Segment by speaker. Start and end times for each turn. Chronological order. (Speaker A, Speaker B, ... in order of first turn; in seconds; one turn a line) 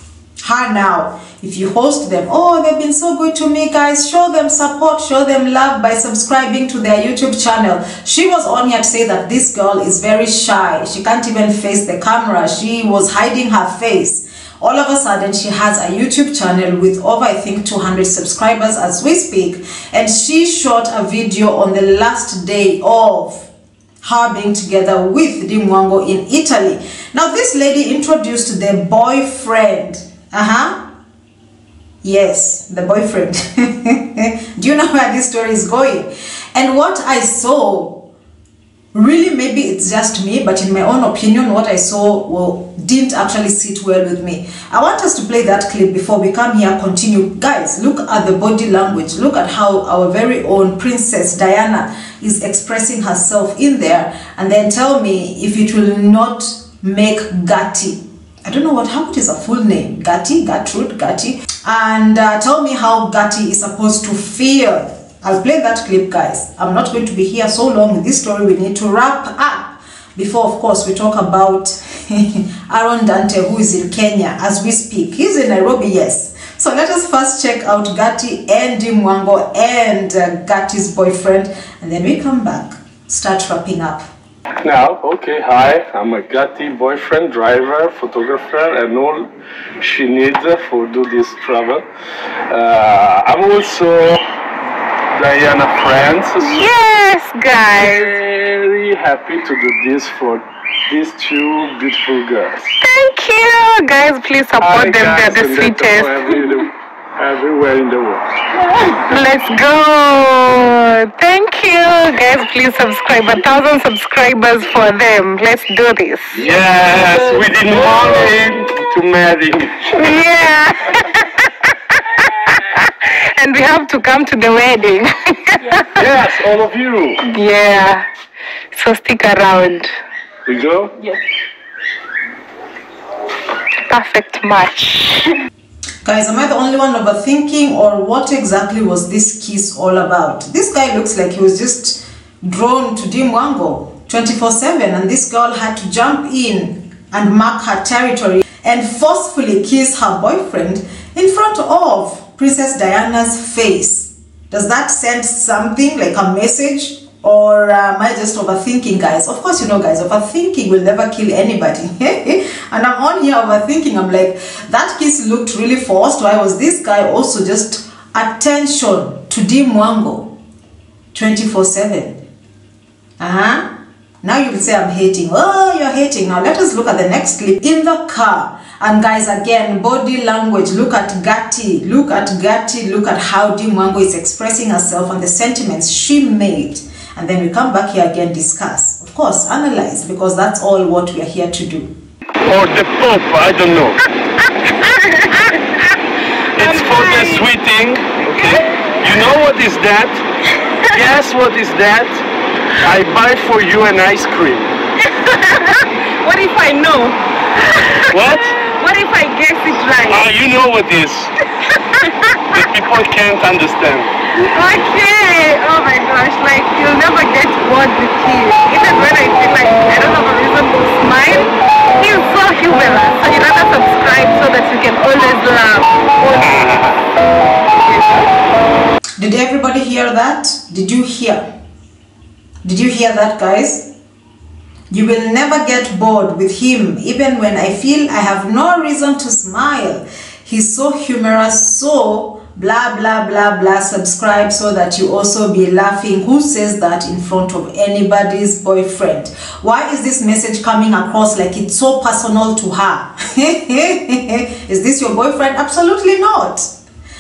Speaker A: 0.4-23.5
Speaker A: 24.0-30.8
Speaker A: 32.0-38.0
Speaker A: 38.9-84.1
Speaker B: 84.6-91.9
Speaker B: 92.5-94.2
Speaker B: 95.1-96.7
Speaker C: 96.4-98.1
Speaker B: 97.7-102.7
Speaker C: 102.8-106.4
Speaker B: 104.6-108.3
Speaker C: 109.0-116.3
Speaker B: 116.3-120.0
Speaker C: 119.9-121.0
Speaker C: 123.4-125.7
Speaker B: 125.9-127.2
Speaker C: 127.2-128.1
Speaker C: 128.7-129.9
Speaker B: 130.5-131.1
Speaker C: 133.9-135.3
Speaker A: 136.0-170.3
Speaker A: 171.1-172.2
Speaker A: 173.2-173.7
Speaker A: 174.2-191.9
Speaker B: 192.4-194.0
Speaker B: 196.6-200.2
Speaker C: 196.6-197.4
Speaker B: 200.9-202.2
Speaker B: 202.8-204.8
Speaker C: 205.2-205.7
Speaker C: 206.2-207.2
Speaker B: 208.1-208.6
Speaker C: 208.7-210.3
Speaker B: 210.1-211.3
Speaker B: 212.5-214.1
Speaker C: 214.4-227.0
Speaker C: 227.7-228.3
Speaker A: 229.2-231.5
Speaker A: 232.6-233.9
Speaker A: 234.9-256.7